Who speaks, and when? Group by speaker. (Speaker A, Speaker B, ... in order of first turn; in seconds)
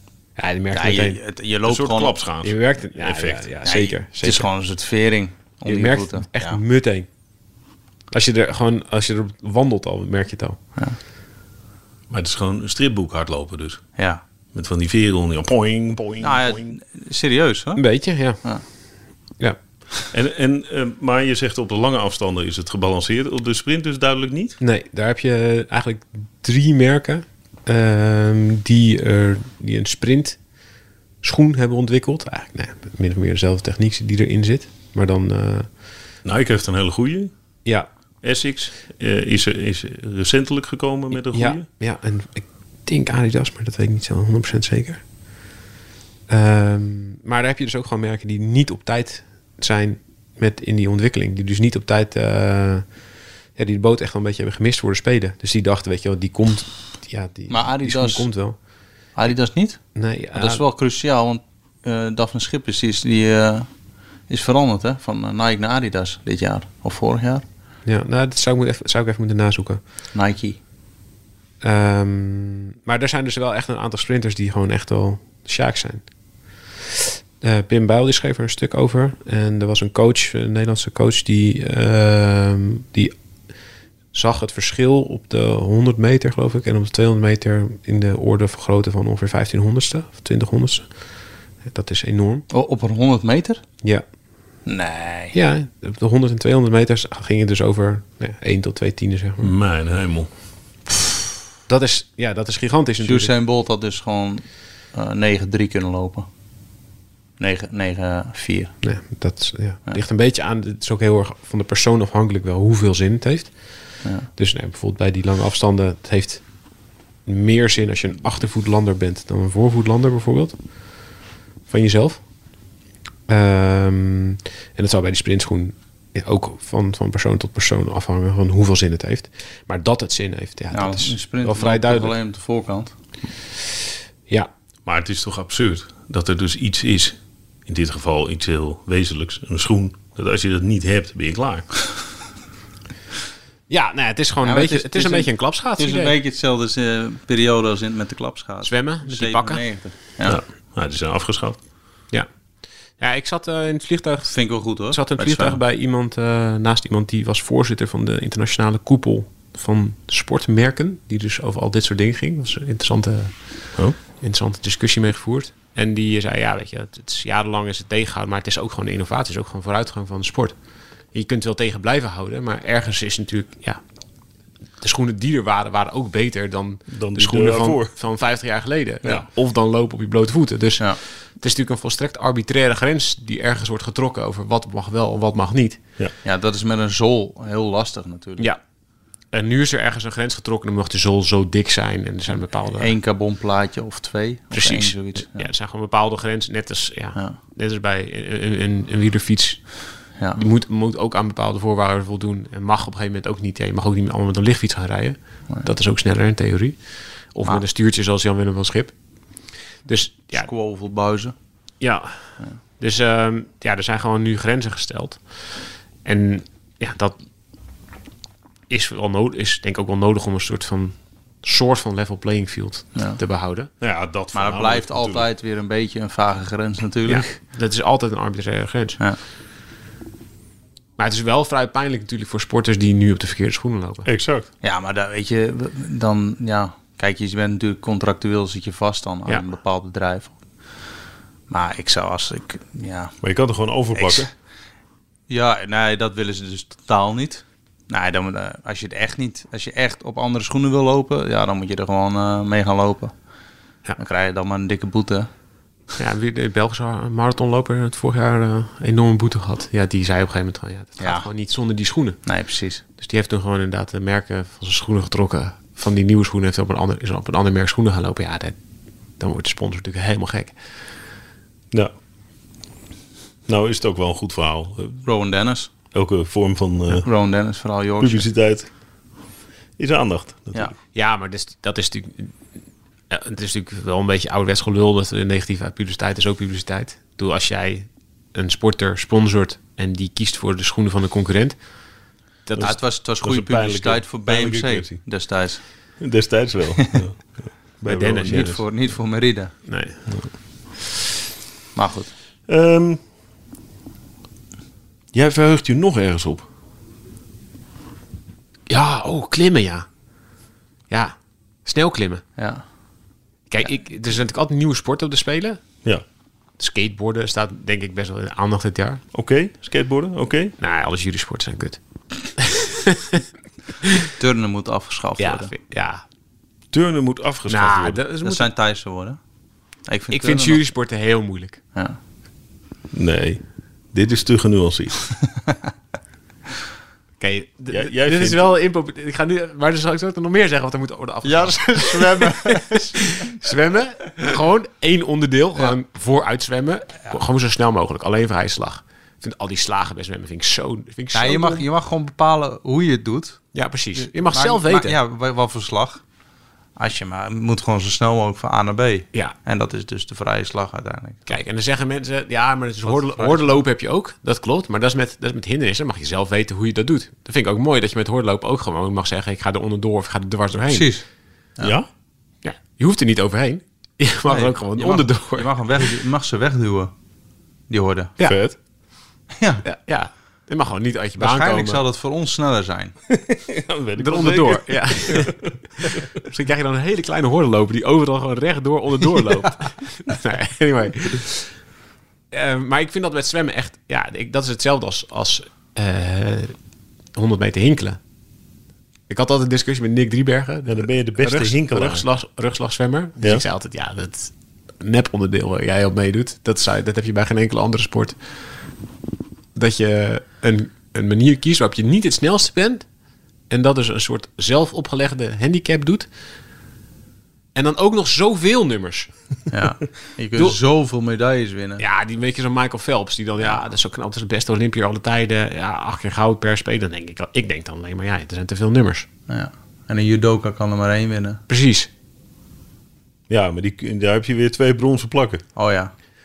Speaker A: 0.4-1.2, 2.4-4.5, 5.6-7.1, 8.1-10.6, 17.8-18.4, 24.6-30.4, 31.2-35.7, 41.2-45.0, 46.3-53.0, 53.5-58.5, 59.9-60.6, 67.8-69.8, 71.6-76.0, 77.4-83.1, 84.1-90.9, 91.6-92.5, 95.3-99.5, 101.7-103.3, 108.8-116.5, 117.2-121.1, 121.7-122.3, 123.3-132.1, 143.7-146.1, 148.6-149.6, 153.0-170.6, 171.1-173.8, 174.8-185.8, 189.3-192.9, 194.5-208.9, 209.8-210.5, 211.8-215.5, 216.0-217.2, 218.7-223.7, 227.1-229.0, 231.0-234.1, 239.3-239.5, 256.0-262.2, 263.0-268.6, 269.2-270.6, 280.9-282.4, 283.1-291.6, 292.4-292.8, 297.9-298.5, 299.7-300.0, 308.7-309.9, 310.9-312.2, 313.5-315.6, 316.6-319.0, 320.6-321.8, 322.3-323.2, 325.2-326.0, 327.5-328.5, 330.1-331.6, 337.2-351.6, 353.5-355.0, 361.3-370.9, 372.4-375.5, 379.6-381.8, 384.0-391.5, 392.3-396.5, 397.1-398.0, 399.1-408.1, 409.5-412.8, 413.5-416.1, 417.5-419.1, 421.8-429.1, 431.5-431.9
Speaker B: 0.7-2.2, 3.6-6.6, 16.2-17.8, 57.5-58.3, 59.1-63.7, 64.3-67.4, 70.1-70.6, 92.5-93.6, 94.7-95.3, 103.0-106.3, 107.4-108.8, 114.0-114.3, 130.7-132.9, 144.4-150.4, 154.3-155.6, 186.2-188.5, 192.8-195.5, 210.3-211.3, 224.3-227.3, 234.6-240.3, 241.5-243.2, 243.9-244.3, 245.3-253.1, 254.0-255.3, 261.0-261.3, 262.2-262.8, 275.0-275.7, 276.9-278.3, 292.6-295.6, 298.2-299.5, 301.7-302.1, 312.4-312.6, 324.2-325.5, 328.2-329.2, 329.9-330.6, 341.2-343.3, 351.1-356.0, 356.8-361.3, 362.9-363.5, 370.7-371.0, 374.3-376.9, 377.7-378.1, 379.4-379.6, 381.2-382.9, 419.5-421.8, 429.3-431.4, 435.5-435.9
Speaker C: 1.6-3.5, 12.1-13.8, 14.5-16.7, 20.1-24.6, 36.2-37.3, 38.2-41.6, 99.4-100.3, 134.8-141.9, 150.2-151.6, 176.9-177.9, 223.8-225.3, 234.0-234.5, 243.2-244.3, 273.5-275.0, 275.9-277.1, 278.0-278.7, 279.8-280.7, 292.6-295.0, 296.0-298.6, 302.5-303.0, 305.1-306.5, 319.1-320.5, 326.7-328.0, 332.9-333.4, 333.9-335.0, 337.7-338.5, 371.6-371.9, 378.2-378.6, 383.1-386.0, 400.6-402.0, 433.3-435.4